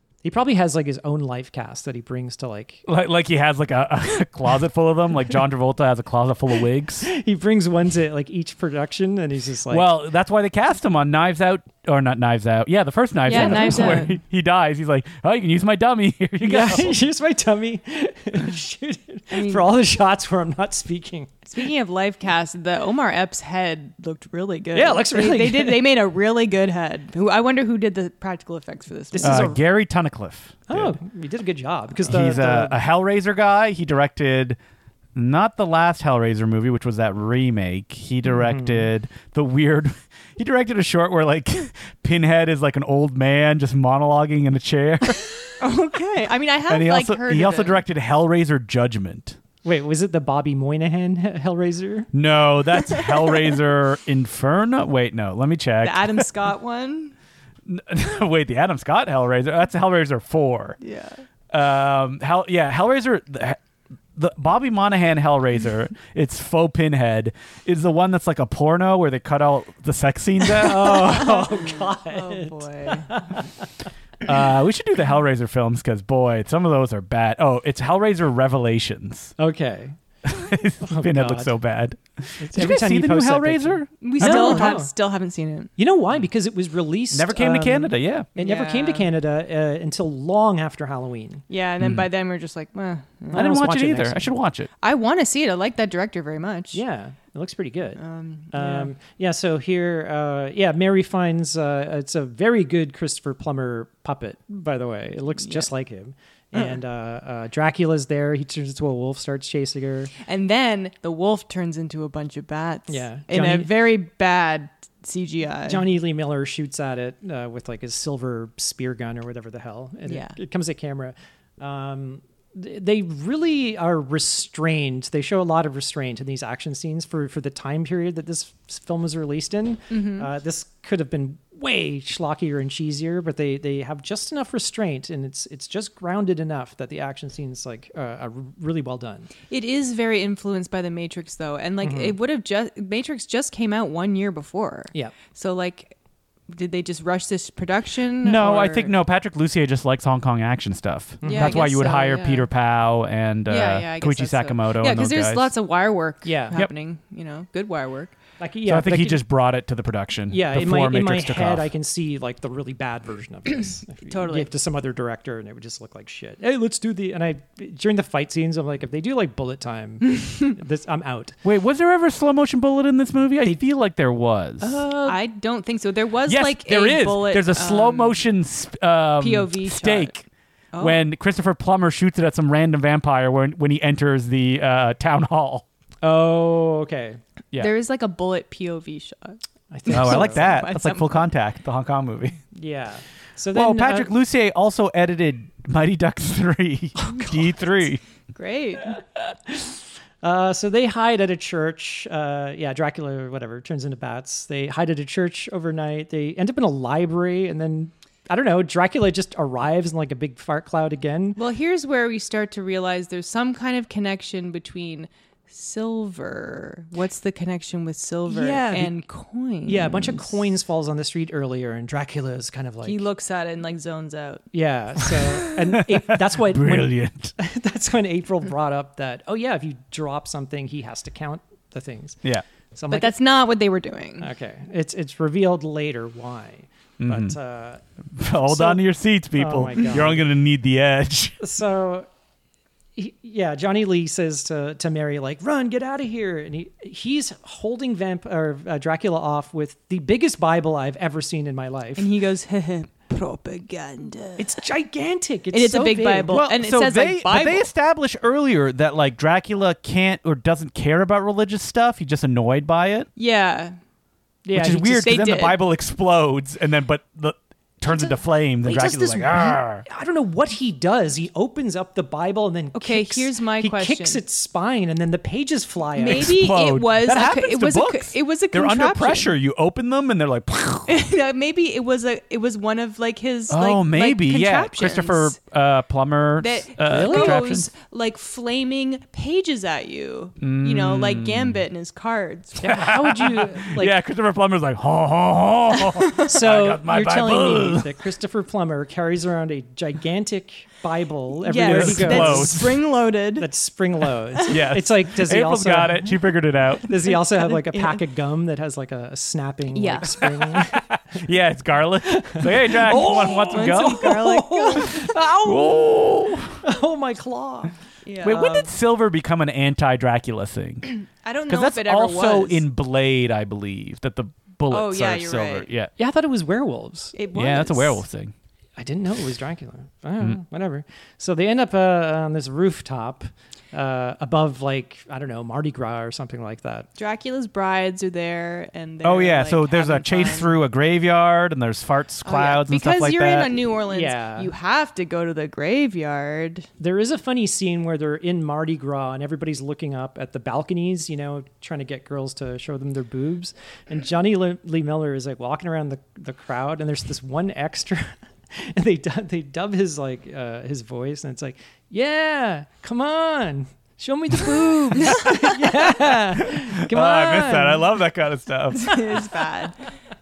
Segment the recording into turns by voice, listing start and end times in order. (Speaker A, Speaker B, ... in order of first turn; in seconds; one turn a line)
Speaker A: 0.2-2.8
Speaker B: 2.9-7.1
Speaker A: 7.0-9.9
Speaker B: 9.7-17.0
Speaker C: 13.2-14.2
Speaker A: 13.3-14.1
Speaker A: 16.4-21.5
Speaker C: 19.3-19.7
Speaker C: 21.5-29.5
Speaker A: 24.7-25.8
Speaker A: 29.1-29.6
Speaker B: 29.2-31.0
Speaker A: 30.7-32.8
Speaker B: 32.0-34.6
Speaker B: 35.1-45.4
Speaker A: 38.3-38.9
Speaker C: 45.6-47.8
Speaker B: 46.7-49.4
Speaker A: 49.6-52.1
Speaker B: 52.1-56.2
Speaker C: 55.8-57.1
Speaker B: 57.6-60.8
Speaker C: 60.8-61.2
Speaker B: 61.5-63.6
Speaker B: 64.1-71.3
Speaker A: 70.4-73.5
Speaker C: 70.9-73.4
Speaker B: 74.2-79.3
Speaker A: 79.4-80.0
Speaker B: 80.2-84.8
Speaker A: 80.8-81.5
Speaker A: 82.4-84.9
Speaker C: 84.0-85.7
Speaker A: 85.8-91.5
Speaker B: 87.1-88.3
Speaker C: 88.4-89.1
Speaker C: 91.5-93.5
Speaker B: 91.8-92.0
Speaker A: 93.3-94.3
Speaker B: 93.3-94.7
Speaker C: 94.8-96.8
Speaker A: 96.7-98.0
Speaker C: 98.0-98.9
Speaker A: 98.5-110.1
Speaker C: 105.4-105.7
Speaker C: 110.2-115.8
Speaker A: 112.9-113.7
Speaker A: 115.7-139.3
Speaker C: 120.0-120.4
Speaker C: 129.9-130.3
Speaker C: 139.5-145.9
Speaker A: 141.8-142.2
Speaker C: 146.5-148.9
Speaker B: 148.2-155.5
Speaker A: 151.2-151.6
Speaker C: 151.2-152.5
Speaker C: 153.5-158.2
Speaker A: 156.2-156.6
Speaker A: 158.4-159.2
Speaker B: 158.6-161.7
Speaker A: 160.3-171.4
Speaker C: 164.1-164.5
Speaker C: 170.1-170.5
Speaker B: 171.4-174.9
Speaker C: 174.6-178.2
Speaker A: 174.8-175.1
Speaker B: 176.3-180.2
Speaker C: 179.2-180.1
Speaker C: 180.7-181.1
Speaker B: 180.8-185.7
Speaker A: 186.0-187.2
Speaker C: 187.6-191.2
Speaker A: 189.7-190.4
Speaker B: 189.9-192.4
Speaker A: 192.5-194.1
Speaker B: 193.5-198.0
Speaker C: 198.3-199.0
Speaker A: 199.5-211.4
Speaker C: 211.4-220.4
Speaker A: 218.3-218.9
Speaker A: 219.7-223.1
Speaker C: 222.8-224.4
Speaker A: 224.5-232.2
Speaker B: 225.7-227.3
Speaker A: 232.7-233.1
Speaker C: 232.9-234.3
Speaker A: 234.2-237.8
Speaker B: 237.0-237.4
Speaker B: 238.1-241.4
Speaker A: 238.4-238.8
Speaker A: 239.4-240.3
Speaker A: 241.4-242.1
Speaker A: 242.9-252.1
Speaker C: 252.0-254.6
Speaker A: 254.4-256.4
Speaker C: 255.5-257.7
Speaker B: 256.3-263.1
Speaker C: 263.1-263.8
Speaker A: 264.4-265.1
Speaker B: 264.5-269.8
Speaker C: 264.9-265.6
Speaker A: 268.6-276.3
Speaker C: 272.7-274.2
Speaker C: 275.9-279.3
Speaker B: 276.0-281.0
Speaker C: 280.9-285.4
Speaker B: 283.5-287.7
Speaker C: 286.4-293.4
Speaker A: 286.8-287.4
Speaker B: 290.4-291.6
Speaker A: 292.6-293.9
Speaker B: 292.6-298.0
Speaker A: 296.2-302.8
Speaker C: 301.4-303.5
Speaker B: 301.6-302.8
Speaker A: 303.4-306.1
Speaker B: 304.5-306.9
Speaker A: 306.8-311.2
Speaker C: 307.0-308.0
Speaker C: 309.7-310.3
Speaker B: 310.2-314.2
Speaker A: 312.0-317.8
Speaker C: 312.9-315.1
Speaker B: 315.4-316.6
Speaker C: 318.0-318.7
Speaker B: 318.2-320.9
Speaker C: 320.9-322.6
Speaker B: 321.5-325.9
Speaker C: 324.7-325.7
Speaker A: 326.0-327.1
Speaker C: 327.1-328.0
Speaker B: 327.3-328.3
Speaker A: 328.8-336.9
Speaker C: 337.0-340.6
Speaker B: 339.0-343.6
Speaker C: 342.2-346.7
Speaker A: 343.9-344.5
Speaker A: 346.8-367.9
Speaker B: 364.9-365.4
Speaker C: 364.9-365.6
Speaker B: 366.3-369.0
Speaker C: 368.7-369.9
Speaker A: 368.9-369.5